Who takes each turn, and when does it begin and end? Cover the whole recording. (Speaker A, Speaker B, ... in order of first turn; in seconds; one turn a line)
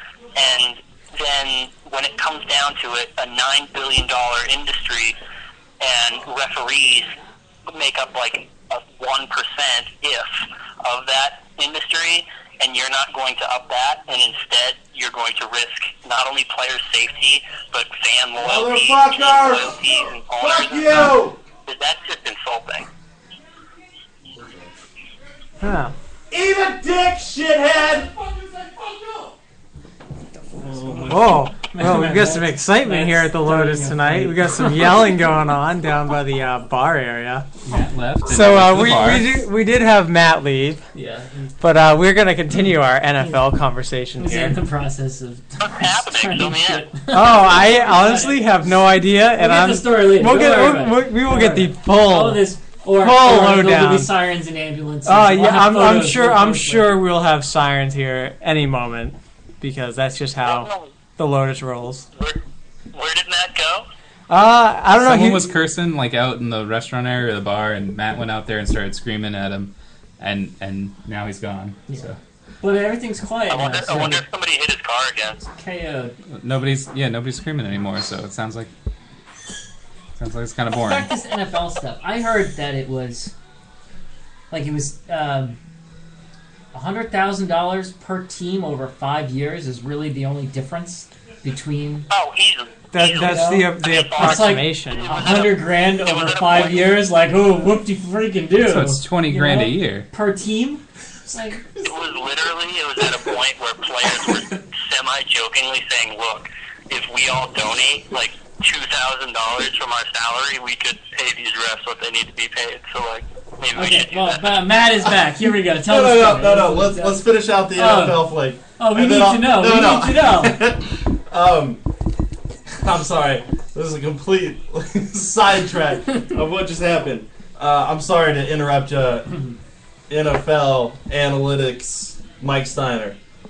Speaker A: 0.3-5.2
Speaker A: 5.8-7.2
Speaker A: 7.7-22.9
Speaker B: 18.4-21.4
Speaker C: 25.6-25.9
Speaker B: 26.3-28.1
Speaker D: 30.8-35.1
Speaker C: 31.0-37.5
Speaker E: 37.6-39.5
Speaker C: 38.2-40.9
Speaker D: 40.9-41.5
Speaker C: 41.6-44.6
Speaker D: 44.2-57.0
Speaker A: 45.6-46.9
Speaker C: 47.1-54.1
Speaker C: 55.0-62.1
Speaker A: 60.4-60.9
Speaker A: 62.9-63.9
Speaker C: 64.3-65.5
Speaker E: 64.9-72.2
Speaker D: 72.6-74.2
Speaker A: 73.5-75.4
Speaker D: 75.6-76.1
Speaker E: 76.3-78.7
Speaker E: 80.2-81.1
Speaker D: 80.7-83.3
Speaker D: 84.5-85.6
Speaker D: 86.7-92.1
Speaker A: 92.1-97.0
Speaker C: 92.9-95.3
Speaker D: 93.2-101.6
Speaker E: 98.6-100.1
Speaker A: 101.8-114.6
Speaker D: 113.7-120.6
Speaker B: 115.8-121.8
Speaker B: 122.8-129.3
Speaker B: 130.1-133.2